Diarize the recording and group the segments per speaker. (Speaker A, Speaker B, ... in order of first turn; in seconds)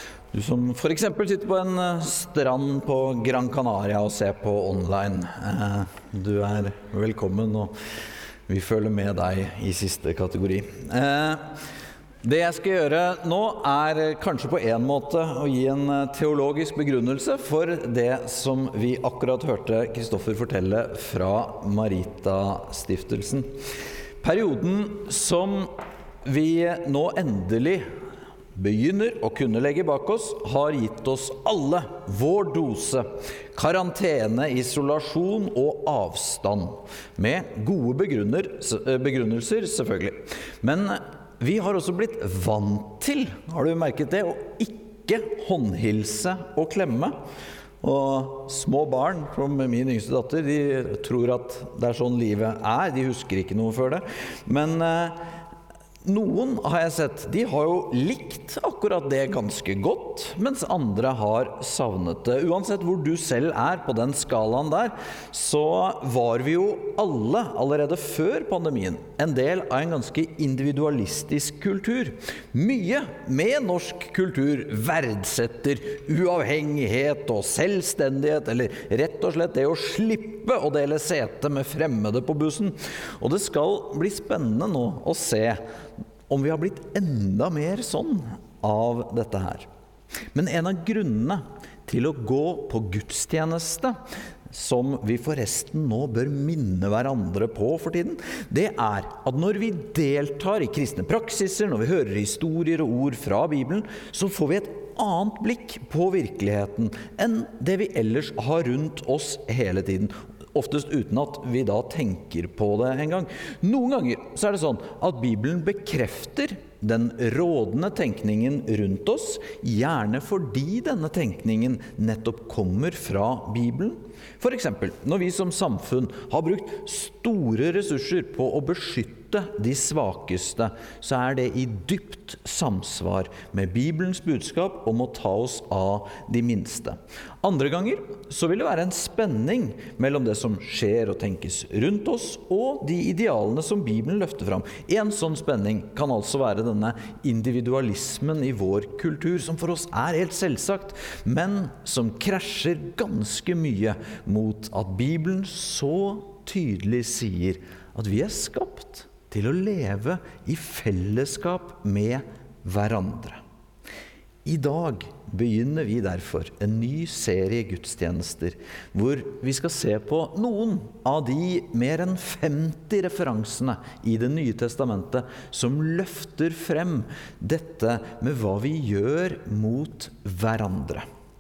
Speaker A: 0.3-7.7, 8.5-11.5, 12.2-23.5, 24.2-25.7, 26.2-27.9, 28.6-47.2, 47.8-55.2, 56.0-85.6, 86.3-89.7, 90.3-94.0, 94.5-163.4, 164.4-181.1